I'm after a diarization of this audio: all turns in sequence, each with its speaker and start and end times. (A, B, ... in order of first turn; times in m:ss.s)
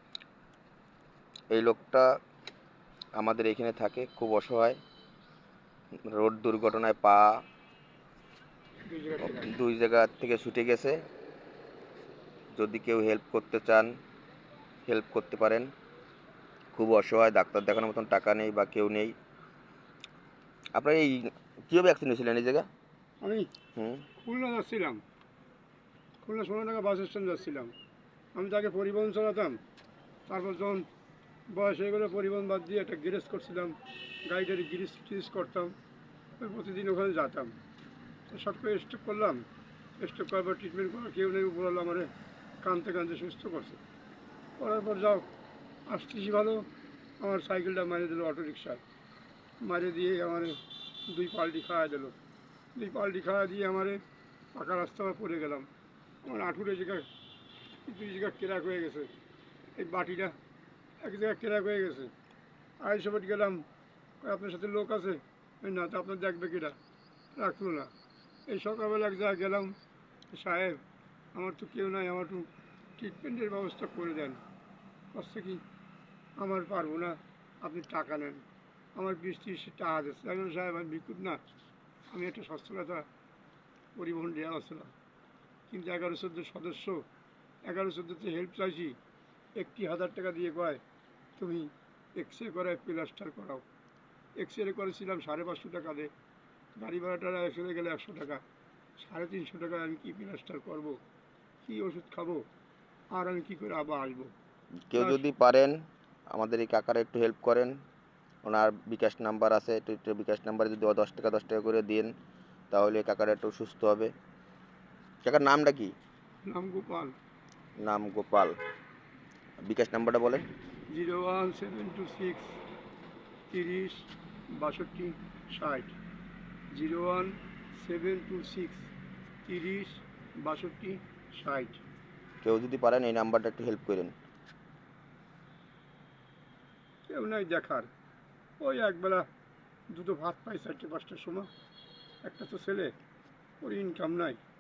0:01.5-0:02.2 A
0:03.2-0:04.8 A
0:06.1-0:07.4 A
0:08.9-0:09.5 B
0:09.2-0:11.0 A
0:12.5-0:13.9 A
0:14.9-0:15.7 A
0:16.7-0:19.1 A
0:20.8-0:22.7 A
0:23.2-0:23.5 B
0:23.8-0:24.1 A
0:24.2-0:25.0 B
0:26.2-0:27.7 B
0:28.4-0:29.6 B
0:30.3-0:30.9 B
0:31.5-0:33.7 B
0:34.3-0:35.7 B
0:36.4-0:37.6 B
0:38.3-0:39.4 B
0:40.0-0:42.1 B
0:42.6-0:43.8 B
0:44.6-0:45.3 B
0:45.9-0:46.6 B
0:47.2-0:48.8 B
0:49.6-0:50.6 B
0:51.1-0:52.2 B
0:52.8-0:54.0 B
0:54.6-0:55.7 B
0:56.2-0:57.1 B
0:57.9-0:59.1 B
0:59.8-1:00.4 B
1:01.0-1:02.1 B
1:02.8-1:03.6 B
1:04.2-1:06.8 B
1:07.4-1:07.9 B
1:08.5-1:09.7 B
1:10.3-1:10.8 B
1:11.4-1:12.5 B
1:13.0-1:14.4 B
1:15.1-1:15.6 B
1:16.4-1:18.4 B
1:19.0-1:21.4 B
1:22.1-1:23.0 B
1:24.0-1:24.9 B
1:25.7-1:27.0 B
1:27.7-1:29.0 B
1:29.6-1:30.8 B
1:31.4-1:33.6 B
1:34.4-1:36.1 B
1:36.8-1:38.4 B
1:39.0-1:41.0 B
1:41.6-1:42.4 B
1:43.1-1:44.3 B
1:44.9-1:45.8 A
1:44.9-1:45.2 B
1:46.3-1:47.7 A
1:48.4-1:52.1 A
1:52.7-1:54.1 A
1:55.2-1:55.9 A
1:56.5-1:57.2 B
1:57.8-1:58.6 A
1:59.6-2:00.5 A
2:00.9-2:02.6 B
2:03.5-2:06.0 B
2:06.7-2:08.9 B
2:09.5-2:11.8 B
2:12.4-2:14.2 A
2:17.1-2:17.9 B
2:18.6-2:19.2 B
2:19.9-2:21.5 B
2:22.2-2:22.9 B
2:23.6-2:24.4 B